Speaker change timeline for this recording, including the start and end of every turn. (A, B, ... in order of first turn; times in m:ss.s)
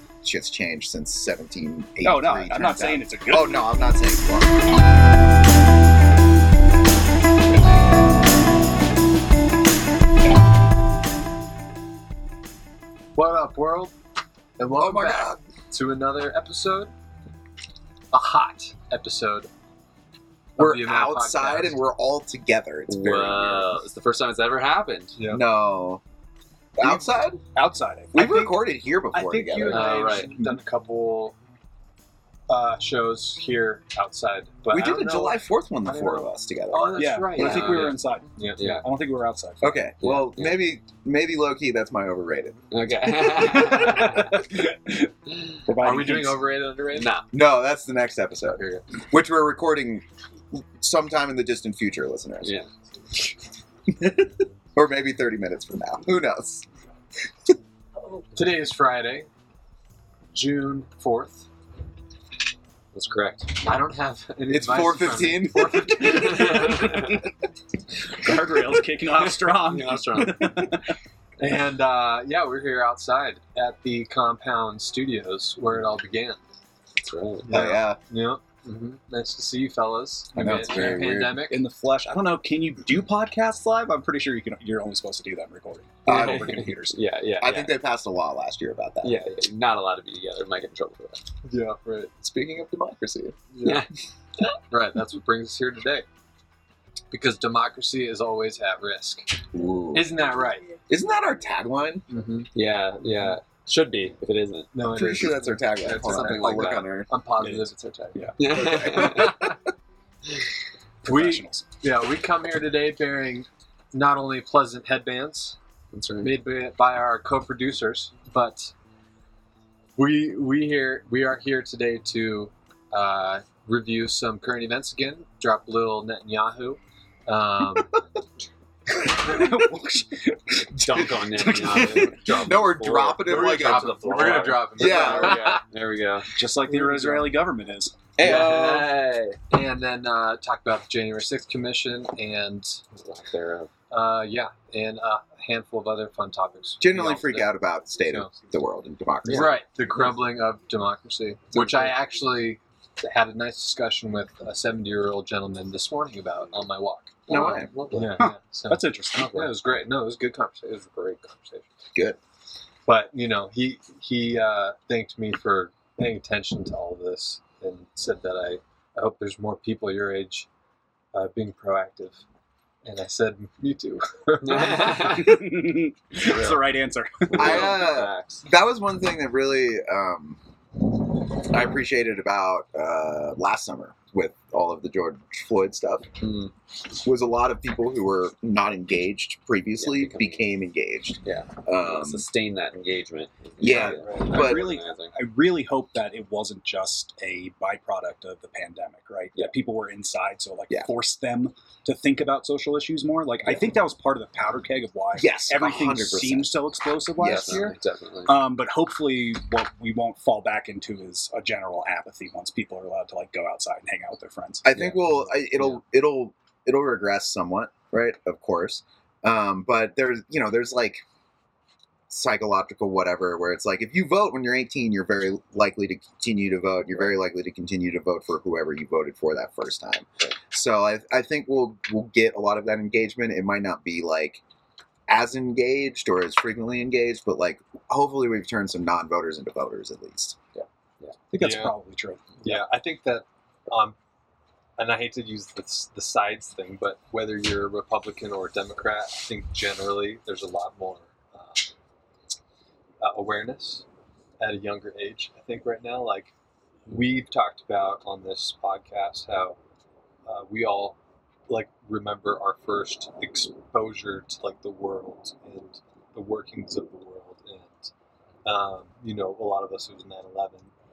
0:00.2-0:04.7 A
0:02.0-0:03.7 B
0:13.1-0:13.9 C
0:14.6-0:16.9 C
0:14.8-0:15.4 A
0:18.1-0:19.5 C
0:20.6-0:21.8 C
0:20.6-0:23.8 A
0:22.9-0:25.2 D
0:25.2-0:25.4 C
0:25.2-0:26.0 A
0:26.8-0:27.4 A
0:26.8-0:29.7 B
0:28.1-0:30.6 A
0:29.4-0:31.3 C
0:29.7-0:30.4 D
0:32.5-0:38.8 C
0:34.7-0:37.8 A
0:37.0-0:39.9 B
0:37.0-0:38.0 D
0:38.6-0:38.8 D
0:39.6-0:42.6 A
0:40.0-0:40.6 D
0:42.7-0:44.5 D
0:43.5-0:45.1 B
0:45.6-0:46.4 B
0:45.8-0:47.1 C
0:46.9-0:47.3 D
0:47.3-0:52.5 A
0:52.4-0:52.7 D
0:53.9-0:56.6 A
0:58.3-0:59.3 C
1:00.3-1:01.5 C
1:02.9-1:03.6 D
1:03.6-1:07.2 C
1:04.5-1:06.2 A
1:05.9-1:07.2 D
1:08.1-1:10.9 B
1:09.7-1:10.6 C
1:09.9-1:10.4 D
1:11.4-1:16.4 C
1:17.0-1:17.7 D
1:17.4-1:21.6 C
1:17.5-1:18.0 A
1:20.3-1:21.4 A
1:21.5-1:27.0 B
1:26.0-1:27.7 D
1:26.1-1:26.6 A
1:27.4-1:29.2 A
1:29.0-1:31.2 D
1:31.4-1:32.1 C
1:32.2-1:33.4 A
1:33.5-1:33.8 C
1:33.6-1:33.9 D
1:34.7-1:36.0 C
1:37.1-1:39.4 C
1:39.5-1:40.3 A
1:39.9-1:40.7 C
1:40.9-1:42.0 A
1:42.1-1:43.4 C
1:42.5-1:44.7 D
1:44.7-1:48.3 C
1:44.9-1:47.1 A
1:45.9-1:46.9 D
1:47.4-1:48.4 B
1:48.4-1:49.5 D
1:48.5-1:49.5 A
1:51.0-1:51.6 B
1:51.0-1:55.6 C
1:55.9-1:56.4 D
1:56.2-1:58.7 C
2:00.0-2:08.0 C
2:09.1-2:10.8 B
2:10.8-2:15.6 A
2:10.8-2:16.3 D
2:11.6-2:12.2 B
2:13.2-2:15.6 C
2:16.4-2:18.0 B
2:16.7-2:17.3 C
2:18.2-2:18.9 A
2:18.2-2:19.4 D
2:18.2-2:18.8 C
2:19.5-2:22.8 C
2:22.9-2:23.7 D
2:23.9-2:27.5 C
2:26.8-2:29.6 A
2:28.0-2:28.4 C
2:29.3-2:41.7 C
2:29.3-2:29.6 D
2:31.5-2:32.0 D
2:37.3-2:38.2 D
2:37.3-2:38.0 A
2:38.2-2:39.5 B
2:42.8-2:50.5 C
2:51.1-2:52.2 C
2:52.8-2:55.2 C
2:54.4-2:55.4 D
2:55.0-2:57.7 B
2:56.2-2:56.6 D
2:57.3-2:58.4 D
2:57.4-3:00.4 A
3:01.0-3:06.1 A
3:06.2-3:06.5 D
3:06.9-3:12.2 A
3:09.8-3:10.4 D
3:11.2-3:15.1 D
3:13.6-3:14.7 A
3:13.7-3:14.4 C
3:14.3-3:34.6 B
3:25.2-3:26.5 A
3:27.2-3:27.7 A
3:27.2-3:28.4 D
3:34.6-3:41.0 A
3:34.7-3:35.8 D
3:42.1-3:54.4 A
3:55.1-4:00.4 A
4:00.6-4:01.1 D
4:01.3-4:02.6 B
4:01.4-4:01.7 C
4:02.4-4:04.0 C
4:04.8-4:11.7 C
4:13.0-4:13.8 C
4:14.4-4:16.3 C
4:16.9-4:19.6 C
4:20.2-4:21.0 C
4:21.5-4:27.9 C
4:28.4-4:30.7 C